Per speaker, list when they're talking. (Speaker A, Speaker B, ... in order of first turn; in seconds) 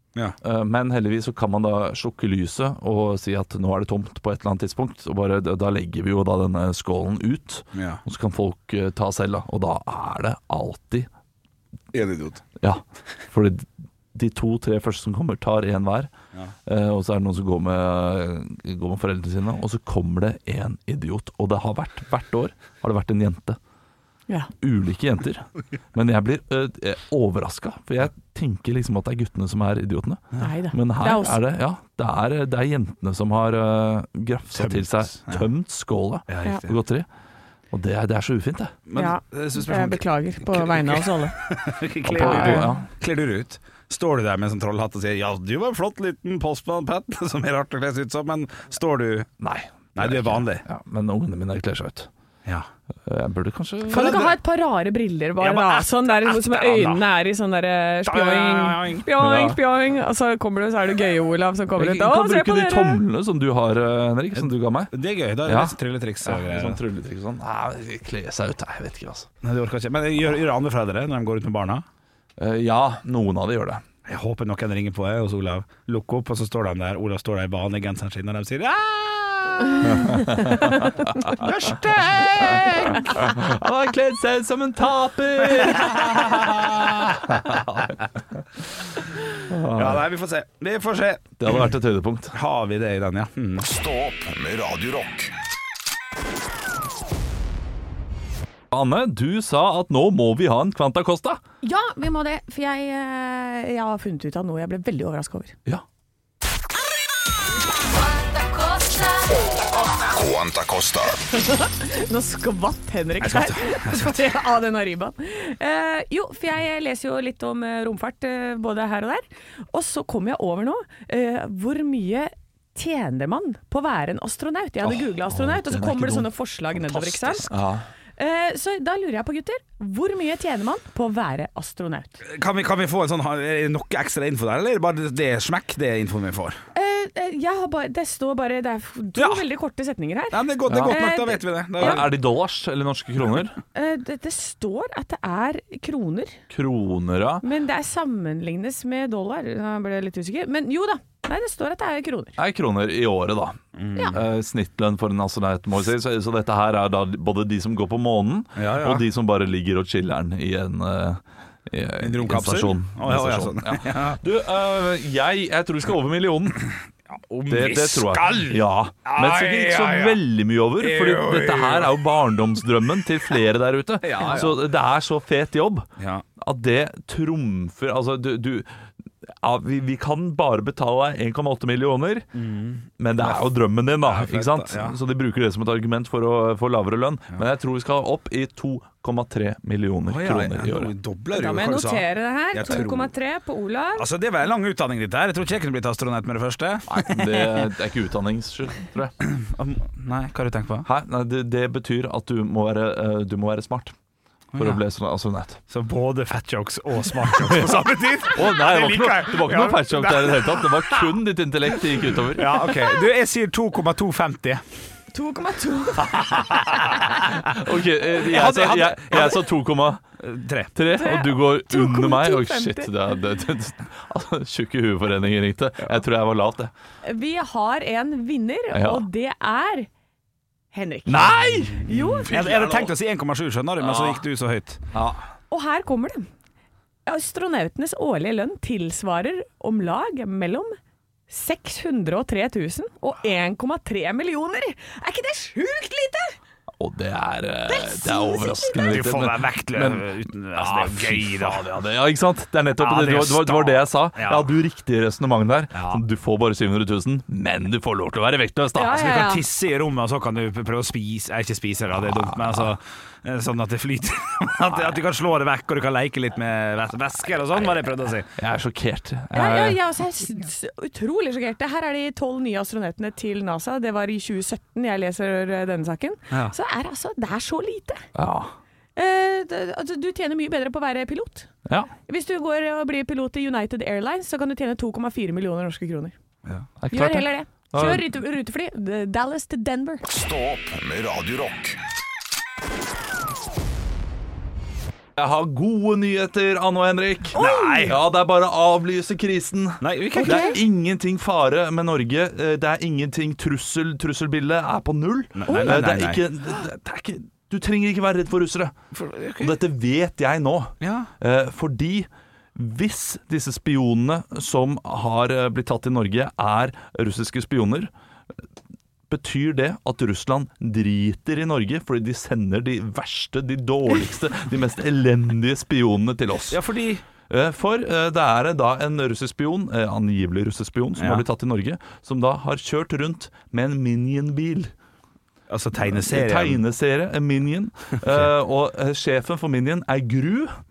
Speaker A: 0.4-11.1, 12.6-16.1, 16.6-23.6, 24.6-37.1, 37.7-38.8, 42.0-42.9, 49.4-52.1, 53.0-54.2, 59.2-59.6, 61.8-64.9, 65.4-69.3, 72.4-73.8, 79.8-88.9, 89.4-90.0, 91.4-92.3, 98.7-101.4, 124.8-126.3, 127.5-127.8, 140.7-141.0, 141.8-143.6, 146.5-147.4, 152.4-166.7, 167.5-175.9, 176.4-182.3, 183.0-190.9, 196.9-199.1, 200.8-203.9, 204.6-205.6, 207.4-212.6, 217.3-220.0, 220.7-226.7, 228.7-229.1, 231.1-232.9, 233.8-234.2, 234.9-235.3, 246.8-259.0, 262.0-262.6, 268.4-269.8, 278.1-278.5, 286.8-288.1, 295.1-308.7, 309.4-317.9, 319.1-326.6, 327.3-334.7, 335.9-340.5
Speaker B: 7.7-8.0, 11.9-12.4, 34.5-35.4, 36.3-36.8, 38.9-49.3, 49.9-50.6, 53.9-54.4, 55.4-57.0, 58.0-59.0, 64.3-66.8, 69.4-71.8, 74.0-80.2, 81.4-83.2, 89.7-91.7, 92.3-93.7, 113.2-114.2, 126.8-127.6, 132.2-136.6, 139.2-139.4, 140.3-142.1, 153.7-154.2, 158.6-159.0, 162.0-164.2, 167.1-170.2, 170.8-172.0, 174.0-174.6, 176.0-176.2, 182.3-183.5, 184.0-185.0, 190.1-193.1, 194.0-197.0, 199.2-200.9, 204.5-204.8, 205.7-211.2, 212.3-214.9, 218.2-219.5, 220.2-220.7, 232.3-234.8, 248.8-251.7, 252.8-254.5, 255.7-256.0, 258.9-268.3, 297.4-298.0, 299.8-300.6, 305.4-306.2, 308.9-309.6, 310.8-311.1, 326.5-327.0, 331.0-331.2, 335.5-336.6, 338.0-338.3
Speaker C: 30.4-31.4, 39.0-41.3, 42.1-42.7, 53.9-63.0, 101.6-105.6, 111.3-127.5, 128.2-132.2, 136.7-142.0, 143.7-146.4, 147.4-152.3, 191.3-194.1, 197.1-197.6, 215.1-217.2, 220.9-222.9, 227.0-229.9, 230.7-232.3, 235.5-236.3, 237.1-240.7, 241.3-246.4, 247.7-249.0, 258.8-259.4, 269.3-278.1, 278.9-281.5, 282.1-286.1, 286.9-290.0, 297.3-297.9, 300.1-300.6, 305.5-305.8
Speaker D: 93.6-95.3, 110.0-111.2, 290.0-291.8